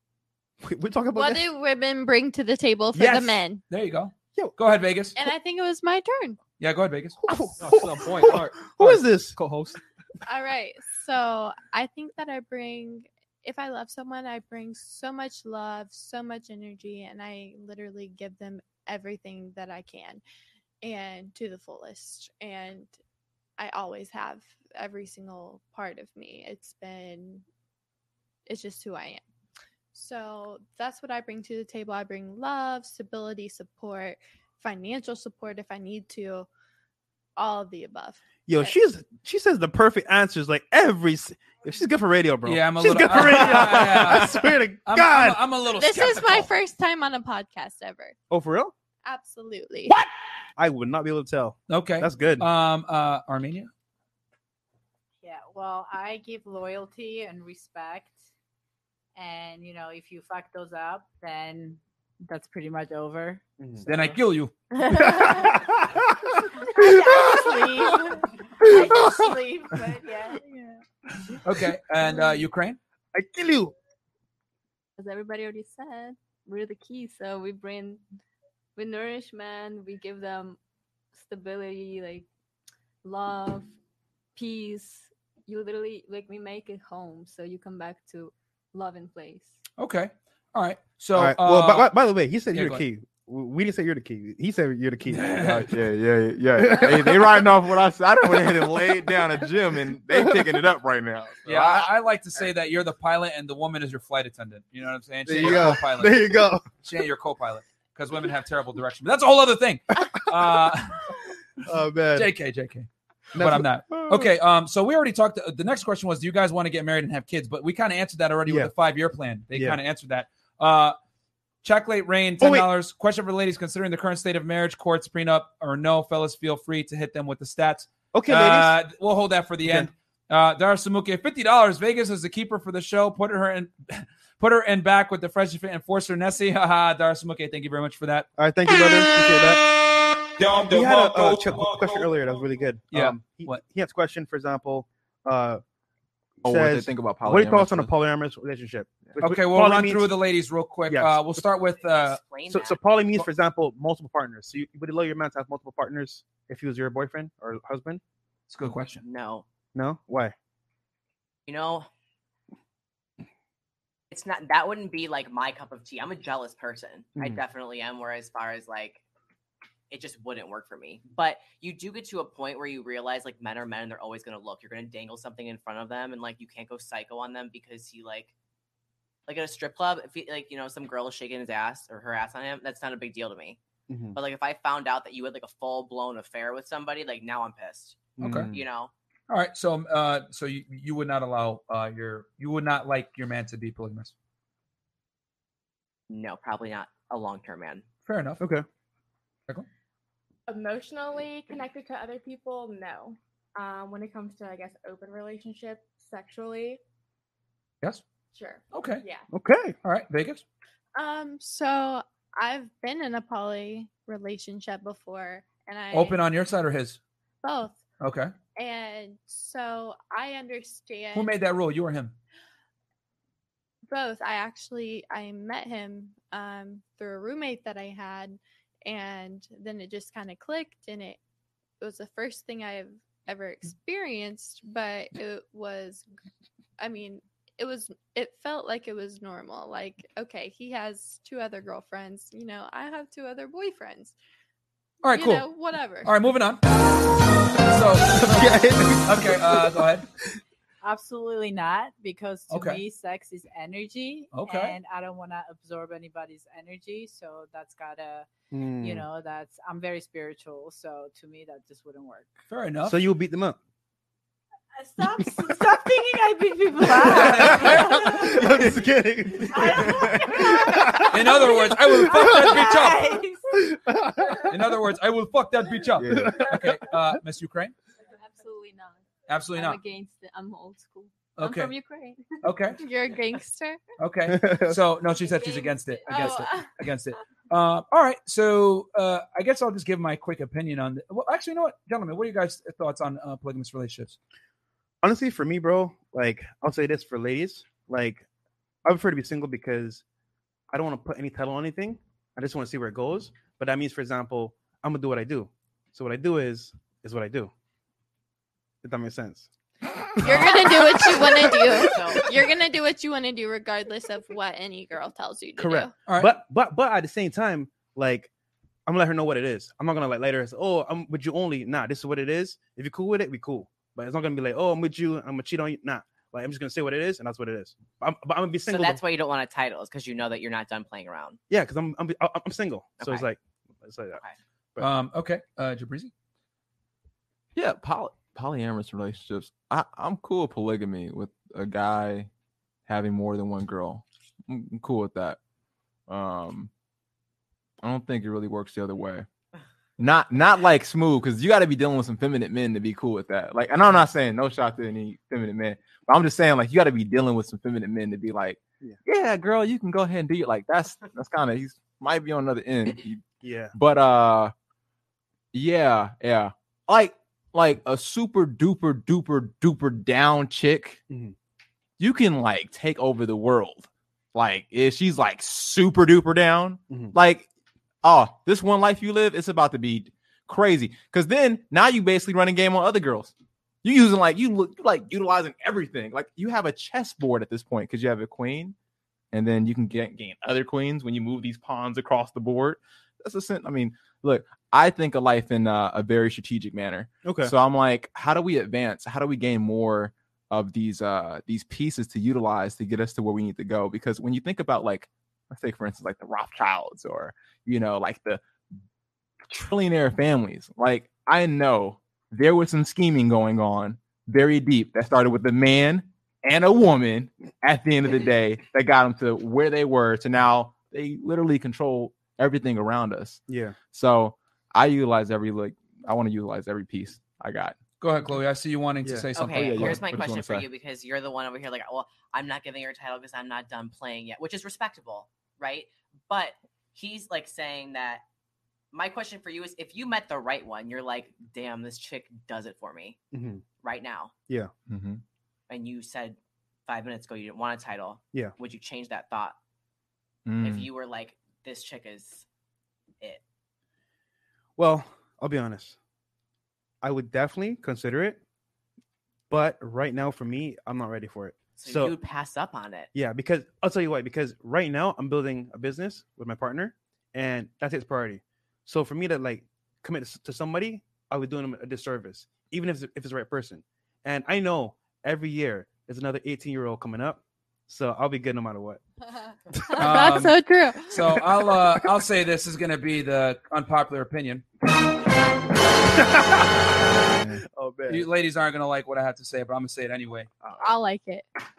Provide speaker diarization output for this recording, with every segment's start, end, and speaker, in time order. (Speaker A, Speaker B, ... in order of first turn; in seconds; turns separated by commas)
Speaker A: 0.6-1.5, Speaker B: 1.1-3.6, Speaker A: 2.9-3.4, Speaker C: 3.7-5.2, Speaker B: 5.2-6.4, Speaker C: 6.6-7.2, Speaker A: 7.3-9.4, Speaker D: 7.6-9.8, Speaker B: 10.3-20.2, Speaker B: 20.8-22.9, Speaker B: 23.6-27.4, Speaker B: 28.5-29.2, Speaker B: 29.9-36.5, Speaker B: 37.4-38.8, Speaker A: 38.5-45.4, Speaker C: 42.5-46.5, Speaker B: 45.8-48.1, Speaker A: 48.3-48.7, Speaker B: 49.0-49.9, Speaker A: 50.6-52.5, Speaker C: 51.7-53.7, Speaker E: 55.2-58.2, Speaker E: 59.2-63.4, Speaker A: 63.6-63.9, Speaker C: 63.9-64.5, Speaker E: 64.8-65.7, Speaker A: 65.2-65.7, Speaker E: 66.6-70.8, Speaker C: 71.4-72.8, Speaker A: 73.1-73.7, Speaker F: 75.0-78.0, Speaker F: 78.8-80.6, Speaker F: 81.1-82.3, Speaker F: 83.0-83.7, Speaker F: 84.4-89.6, Speaker C: 89.8-91.9, Speaker A: 91.2-95.7, Speaker C: 92.5-92.8, Speaker C: 95.1-95.7, Speaker G: 95.4-101.9, Speaker A: 96.6-97.5, Speaker A: 98.2-98.8, Speaker A: 100.2-100.4, Speaker C: 101.5-111.1, Speaker A: 105.3-106.7, Speaker A: 111.6-112.3, Speaker C: 112.2-121.0, Speaker A: 113.3-114.3, Speaker A: 118.5-118.7, Speaker A: 119.5-119.8, Speaker C: 121.6-138.3, Speaker A: 122.4-122.7, Speaker A: 128.1-128.8, Speaker A: 129.7-129.9, Speaker A: 138.4-139.7, Speaker A: 140.5-145.6, Speaker C: 142.9-143.6, Speaker A: 146.4-150.1, Speaker G: 146.4-147.9, Speaker C: 149.2-152.2, Speaker A: 150.9-151.4, Speaker H: 151.8-152.8, Speaker A: 152.5-158.0, Speaker C: 158.5-159.0, Speaker H: 159.0-159.5, Speaker A: 159.8-160.3, Speaker H: 161.5-161.9, Speaker H: 164.1-169.0, Speaker H: 169.9-178.3, Speaker H: 179.3-183.6, Speaker A: 183.9-184.2, Speaker H: 184.1-188.9, Speaker A: 188.2-188.6, Speaker C: 188.2-188.5, Speaker C: 189.3-194.1, Speaker H: 196.1-197.8, Speaker C: 198.1-198.4, Speaker A: 198.4-198.7, Speaker I: 200.5-206.8, Speaker I: 208.3-209.3, Speaker C: 208.7-209.0, Speaker A: 209.3-209.8, Speaker C: 209.8-210.4, Speaker B: 210.9-216.2, Speaker C: 215.9-217.0, Speaker B: 217.4-217.8, Speaker C: 218.0-218.3, Speaker B: 218.6-221.3, Speaker C: 221.1-222.2, Speaker B: 223.9-231.2, Speaker B: 231.8-236.1, Speaker B: 236.8-244.2, Speaker C: 245.0-245.5, Speaker B: 245.1-246.1, Speaker C: 246.0-246.6, Speaker C: 247.7-250.1, Speaker A: 248.2-249.8, Speaker E: 250.8-262.3, Speaker C: 252.5-252.8, Speaker C: 254.3-254.8, Speaker A: 258.5-259.1, Speaker C: 262.5-263.0, Speaker A: 262.9-263.6, Speaker E: 264.8-273.7, Speaker A: 266.9-271.3, Speaker C: 267.1-267.8, Speaker C: 271.1-273.2, Speaker A: 273.6-274.6, Speaker C: 274.4-277.7, Speaker G: 276.0-276.5, Speaker A: 276.1-276.6, Speaker F: 278.1-279.0, Speaker C: 279.3-279.8, Speaker F: 279.5-282.4, Speaker C: 281.4-281.8, Speaker C: 282.4-282.8, Speaker B: 282.8-283.8, Speaker C: 284.0-294.2, Speaker A: 284.3-284.8, Speaker F: 285.2-286.4, Speaker B: 286.1-286.7, Speaker A: 295.0-298.3, Speaker A: 298.9-300.0, Speaker A: 300.7-307.5, Speaker A: 308.8-309.5, Speaker A: 310.2-312.1, Speaker B: 310.2-315.9, Speaker H: 311.8-312.2, Speaker A: 315.6-318.3, Speaker C: 316.1-316.4, Speaker A: 318.9-329.0, Speaker H: 328.7-331.4, Speaker A: 331.5-334.2, Speaker H: 333.0-333.3, Speaker C: 334.8-336.1, Speaker G: 337.6-342.3, Speaker G: 342.9-345.4, Speaker G: 346.1-346.7, Speaker G: 347.8-349.3, Speaker G: 350.0-364.5, Speaker A: 363.4-363.7, Speaker G: 365.5-371.0, Speaker A: 371.1-371.4, Speaker G: 372.0-377.5, Speaker A: 376.9-377.1, Speaker G: 378.0-383.3, Speaker G: 383.8-388.8, Speaker G: 389.3-408.4, Speaker A: 397.2-397.5, Speaker G: 409.5-427.8, Speaker A: 423.5-423.8, Speaker C: 428.0-430.0, Speaker H: 429.4-438.2, Speaker G: 429.5-430.7, Speaker H: 438.9-443.2, Speaker A: 443.3-443.6, Speaker H: 443.8-444.3, Speaker G: 444.9-445.2, Speaker H: 445.7-449.6, Speaker G: 450.5-450.9, Speaker H: 450.6-452.5, Speaker A: 454.8-456.0, Speaker A: 457.0-458.4, Speaker A: 459.5-462.1, Speaker H: 461.8-463.1, Speaker A: 463.1-479.0, Speaker B: 479.9-481.4, Speaker C: 480.0-484.7, Speaker A: 486.1-486.7, Speaker A: 487.4-488.3, Speaker C: 488.1-490.5, Speaker A: 490.6-490.9, Speaker B: 490.8-491.5